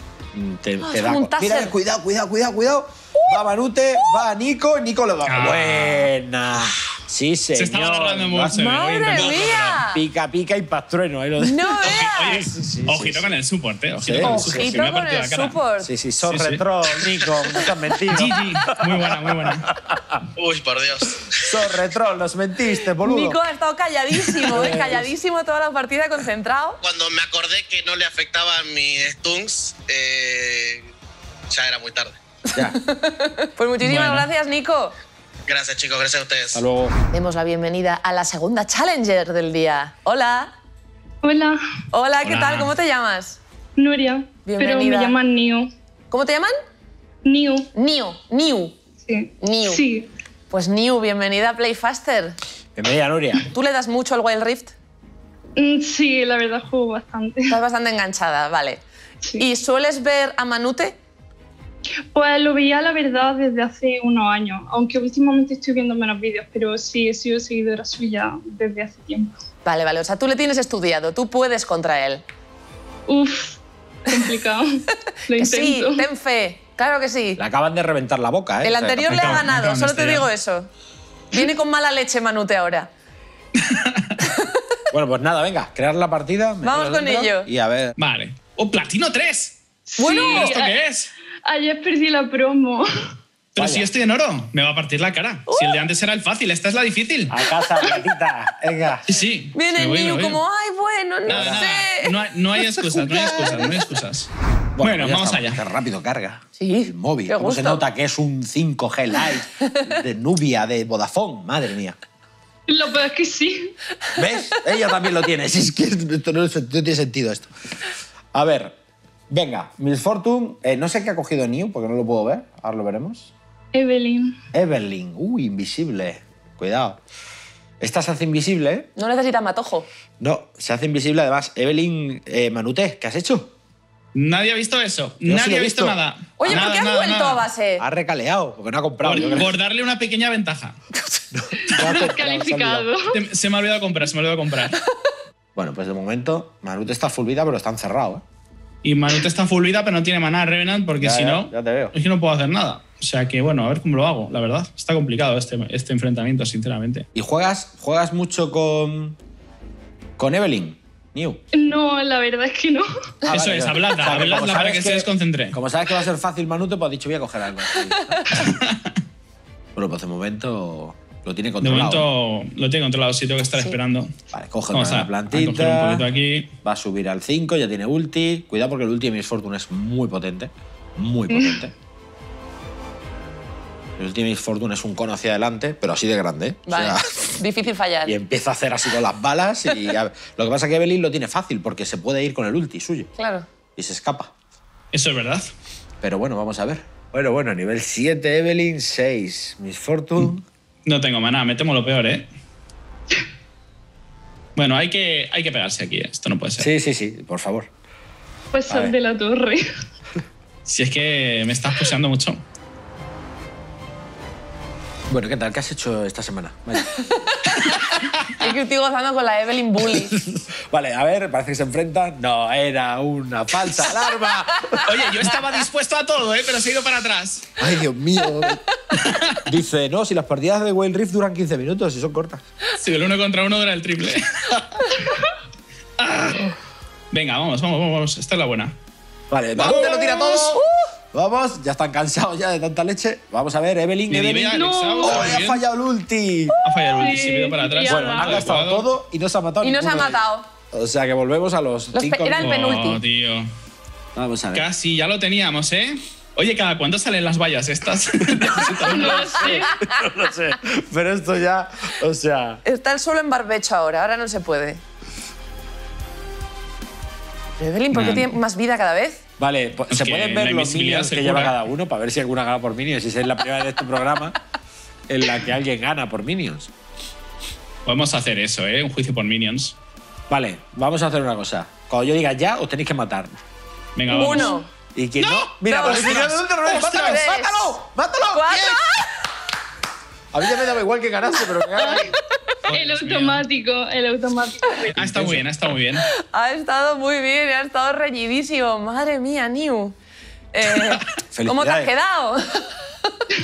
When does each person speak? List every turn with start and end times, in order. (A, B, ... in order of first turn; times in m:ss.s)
0:00.3-0:13.2 A
0:00.8-0:01.7 B
0:03.1-0:03.4 B
0:04.0-0:04.2 B
0:05.2-0:06.1 C
0:07.5-0:09.8 C
0:08.5-0:10.0 B
0:11.4-0:12.5 B
0:11.8-0:15.6 C
0:14.0-0:14.8 A
0:14.2-0:15.9 B
0:15.8-0:18.7 A
0:16.2-0:16.6 C
0:18.1-0:19.7 C
0:19.8-0:20.2 A
0:20.4-0:21.5 D
0:21.4-0:23.4 A
0:23.0-0:26.8 B
0:24.5-0:25.1 A
0:26.8-0:30.9 D
0:31.5-0:32.2 D
0:32.5-0:34.9 B
0:33.8-0:34.3 C
0:35.5-0:36.6 D
0:36.5-0:36.9 A
0:37.1-0:40.5 B
0:41.2-0:41.6 E
0:41.9-0:43.4 B
0:42.2-0:42.7 C
0:43.8-0:45.7 E
0:44.4-0:45.2 B
0:46.1-0:46.5 B
0:47.2-0:47.7 E
0:47.7-0:48.8 B
0:49.0-0:50.1 E
0:49.4-0:49.8 B
0:50.5-0:52.4 B
0:52.8-0:53.4 A
0:53.5-0:54.7 B
0:55.6-0:57.6 E
0:57.5-0:58.8 B
0:59.4-1:01.0 B
1:02.1-1:09.3 E
1:09.6-1:12.2 B
1:13.1-1:14.7 E
1:15.3-1:16.0 E
1:15.3-1:17.4 B
1:17.4-1:19.4 A
1:18.6-1:20.7 B
1:19.1-1:20.3 C
1:21.3-1:22.9 B
1:23.6-1:24.2 C
1:24.3-1:24.6 B
1:24.9-1:27.9 A
1:26.6-1:27.5 B
1:28.0-1:29.6 C
1:29.9-1:30.8 E
1:30.0-1:30.6 B
1:30.1-1:31.1 C
1:31.4-1:32.9 E
1:33.5-1:37.4 C
1:33.6-1:33.9 A
1:35.5-1:35.8 B
1:37.3-1:39.0 A
1:39.1-1:40.4 C
1:39.5-1:42.1 B
1:41.2-1:45.6 C
1:41.3-1:41.7 A
1:42.7-1:43.7 A
1:44.8-1:52.0 A
1:46.6-1:47.8 B
1:49.5-1:49.9 B
1:52.7-1:53.7 E
1:54.1-1:57.5 A
1:58.3-1:58.8 A
1:59.3-2:03.3 A
2:03.7-2:04.4 E
2:04.5-2:07.0 A
2:07.8-2:08.9 A
2:09.0-2:09.9 B
2:10.2-2:13.5 A
2:14.1-2:17.4 C
2:15.2-2:16.0 A
2:16.4-2:17.8 B
2:17.8-2:19.5 A
2:19.0-2:20.8 C
2:21.3-2:22.9 A
2:21.8-2:23.2 E
2:23.1-2:24.8 C
2:25.6-2:28.2 A
2:28.8-2:37.0 C
2:31.0-2:31.9 A
2:37.1-2:39.2 A
2:40.2-2:41.4 A
2:41.5-2:42.8 E
2:43.3-2:48.3 A
2:43.3-2:45.6 C
2:47.9-2:48.2 B
2:48.3-2:48.9 C
2:49.7-2:52.1 A
2:51.6-2:54.1 C
2:54.3-2:56.1 A
2:54.7-2:56.5 C
2:56.6-3:01.7 A
3:01.3-3:01.6 E
3:04.0-3:07.4 A
3:06.7-3:08.1 B
3:08.0-3:13.1 A
3:13.2-3:13.5 B
3:13.8-3:14.3 A
3:14.9-3:15.5 C
3:16.0-3:20.4 A
3:20.8-3:22.3 C
3:24.6-3:26.7 C
3:26.6-3:27.7 A
3:28.5-3:29.6 E
3:28.7-3:28.9 A
3:30.6-3:32.4 C
3:35.1-3:36.9 A
3:36.9-3:40.1 B
3:40.0-3:45.0 A
3:44.3-3:44.7 B
3:44.8-3:47.5 C
3:47.6-3:48.6 A
3:48.9-3:49.4 C
3:49.4-3:52.4 A
3:52.7-3:54.8 C
3:56.0-3:56.5 C
3:57.1-3:58.7 C
3:59.3-4:00.6 A
3:59.6-4:00.9 B
4:01.1-4:06.6 A
4:04.1-4:05.6 C
4:04.5-4:05.4 E
4:06.6-4:08.9 C
4:06.9-4:08.4 E
4:07.8-4:10.2 A
4:09.6-4:10.5 B
4:10.7-4:12.7 A
4:11.9-4:13.0 B
4:12.4-4:13.5 C
4:14.1-4:14.6 A
4:14.5-4:19.5 C
4:18.3-4:22.6 A
4:18.6-4:19.7 E
4:19.4-4:19.9 B
4:22.6-4:24.8 B
4:27.6-4:29.2 B
4:27.9-4:28.3 C
4:29.4-4:34.3 A
4:29.9-4:31.6 C
4:35.1-4:36.7 A
4:37.8-4:39.8 C
4:40.3-4:43.4 A
4:44.0-4:44.6 C
4:44.1-4:44.7 B
4:44.9-4:48.8 A
4:45.2-4:47.2 C
4:45.7-4:46.3 B
4:46.8-4:47.8 B
4:48.3-4:49.1 B
4:50.3-4:52.1 A
4:51.7-4:52.2 B
4:52.6-4:53.4 C
4:52.7-4:55.4 E
4:55.0-4:56.0 C
4:55.0-4:55.4 A
4:56.2-5:00.0 B
5:00.5-5:02.8 B
5:01.3-5:01.9 A